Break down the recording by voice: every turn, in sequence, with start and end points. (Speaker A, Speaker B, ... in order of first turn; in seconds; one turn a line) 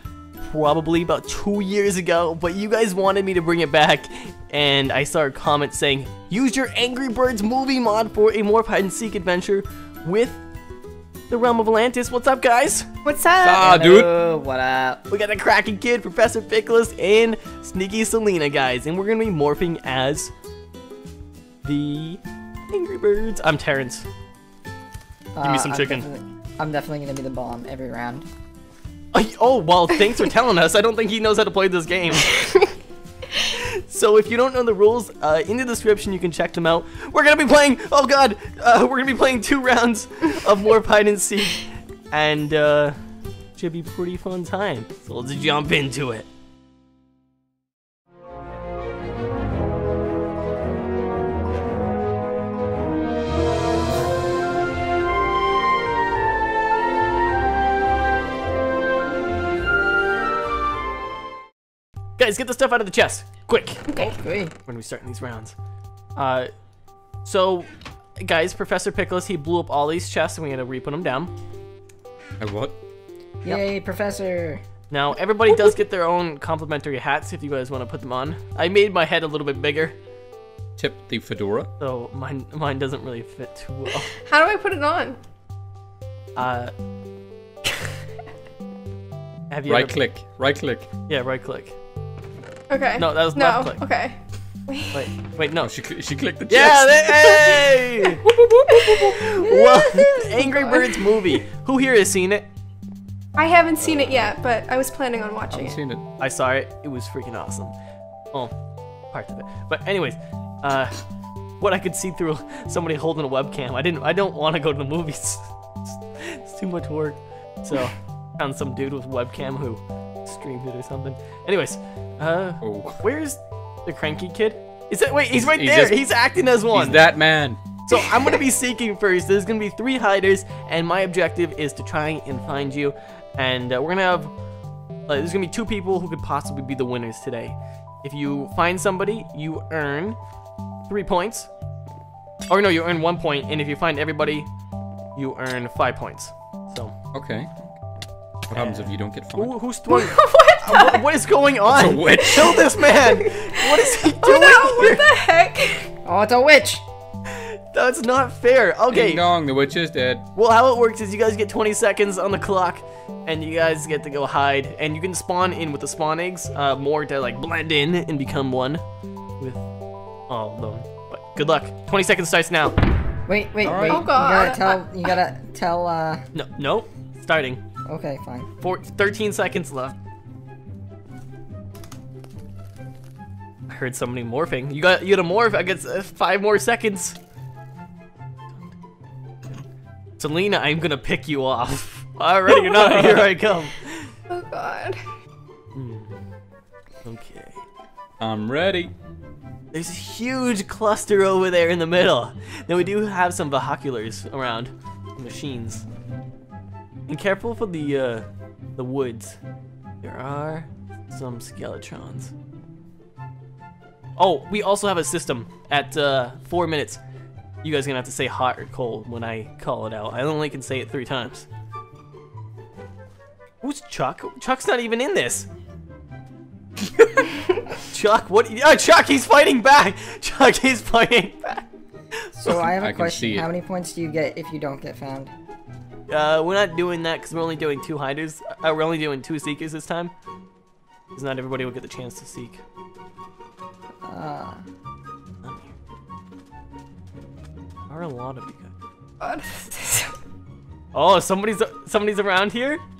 Speaker A: 0.4-10.4
Speaker A: 11.3-12.9
Speaker B: 13.1-13.7
Speaker C: 13.4-14.1
Speaker D: 13.6-15.0
Speaker A: 15.1-20.3
Speaker A: 21.6-24.1
Speaker D: 25.4-28.3
Speaker A: 25.4-26.1
Speaker A: 29.1-32.4
Speaker B: 32.3-32.7
Speaker A: 33.4-43.0
Speaker A: 43.6-46.3
Speaker A: 62.2-63.8
Speaker B: 63.9-64.2
Speaker D: 64.0-64.5
Speaker A: 64.7-65.5
Speaker A: 66.2-66.5
Speaker A: 67.2-71.3
Speaker C: 72.4-72.8
Speaker D: 73.4-74.6
Speaker A: 74.9-80.0
Speaker C: 80.8-81.7
Speaker A: 81.8-84.1
Speaker B: 84.1-85.2
Speaker A: 86.4-86.7
Speaker A: 89.5-90.0
Speaker C: 89.7-90.9
Speaker A: 91.1-91.8
Speaker B: 92.7-95.0
Speaker A: 93.0-93.8
Speaker A: 94.9-95.7
Speaker C: 95.6-99.2
Speaker A: 96.5-98.2
Speaker B: 98.7-101.4
Speaker A: 99.1-102.5
Speaker B: 103.3-105.8
Speaker C: 105.5-106.0
Speaker A: 106.2-107.8
Speaker A: 109.1-111.0
Speaker A: 111.6-127.0
Speaker C: 122.6-123.0
Speaker C: 125.3-126.0
Speaker C: 126.7-127.6
Speaker A: 127.8-134.3
Speaker B: 128.0-128.3
Speaker A: 135.1-140.2
Speaker A: 140.9-141.5
Speaker A: 142.5-144.5
Speaker A: 145.2-146.9
Speaker C: 147.1-147.5
Speaker C: 148.5-149.6
Speaker A: 148.5-155.1
Speaker B: 149.9-151.1
Speaker C: 151.7-152.7
Speaker B: 152.2-155.9
Speaker D: 156.1-156.8
Speaker A: 157.3-159.2
Speaker C: 158.9-160.2
Speaker A: 160.3-168.8
Speaker A: 169.4-169.7
Speaker A: 170.3-172.8
Speaker D: 173.3-176.2
Speaker C: 173.6-174.1
Speaker B: 173.8-175.1
Speaker A: 176.3-177.6
Speaker D: 177.9-178.5
Speaker A: 178.6-179.9
Speaker A: 183.7-187.2
Speaker A: 190.2-194.1
Speaker C: 192.5-193.3
Speaker B: 194.3-195.0
Speaker A: 195.8-196.2
Speaker A: 197.0-197.6
Speaker C: 198.2-198.9
Speaker A: 199.7-205.8
Speaker A: 207.1-209.4
Speaker A: 210.0-212.3
Speaker A: 214.2-217.0
Speaker A: 217.6-221.5
Speaker A: 223.6-225.5
Speaker A: 227.8-231.7
Speaker D: 232.4-235.3
Speaker C: 232.5-233.5
Speaker A: 236.1-240.1
Speaker A: 241.1-242.6
Speaker D: 244.1-244.6
Speaker A: 245.4-245.8
Speaker A: 247.9-248.8
Speaker B: 249.2-250.2
Speaker A: 250.9-252.8